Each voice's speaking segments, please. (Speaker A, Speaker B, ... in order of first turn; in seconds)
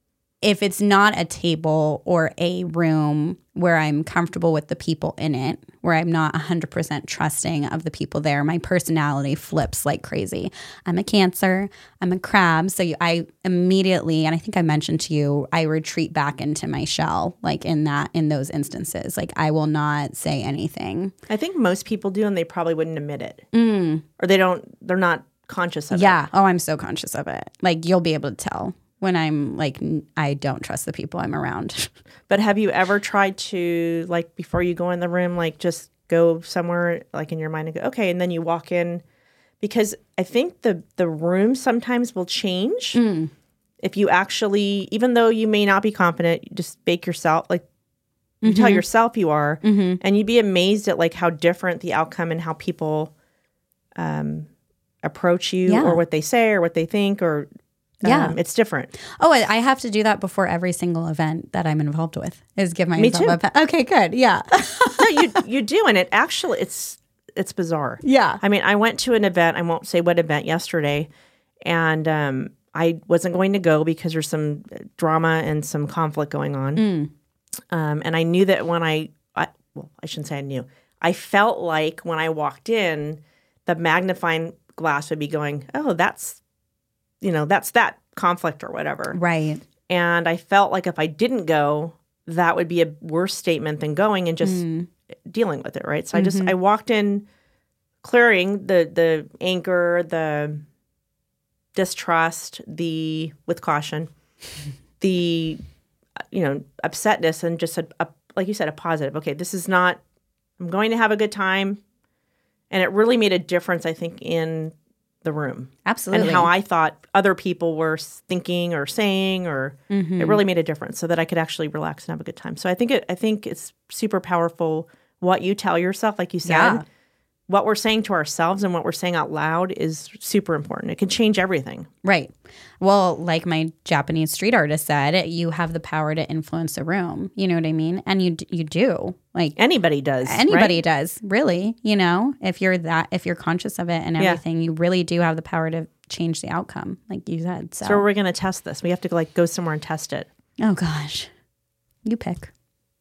Speaker A: 0.4-21.1, 23.5-24.0, 25.9-31.9, 42.9-43.3, 48.4-48.8, 49.6-50.0, 55.6-56.0, 58.0-58.3, 59.2-65.3, 68.0-68.4, 76.8-77.1, 89.1-89.6, 94.4-94.9, 96.1-96.5, 115.8-116.5, 119.9-120.4, 126.4-126.8, 132.0-139.6, 140.2-148.0, 150.6-151.3, 152.0-152.5
Speaker B: 21.3-23.4, 24.2-26.2, 32.3-39.0, 39.6-43.0, 43.8-47.6, 48.4-53.1, 53.9-54.5, 55.0-57.5, 58.0-58.9, 63.0-63.4, 65.0-71.1, 71.6-76.8, 77.7-86.4, 87.2-89.2, 89.9-94.6, 95.2-97.2, 98.0-100.6, 101.7-104.1, 105.0-105.6, 106.3-110.0, 110.6-111.8, 112.7-126.8, 127.5-131.9, 139.6-140.8, 147.8-150.3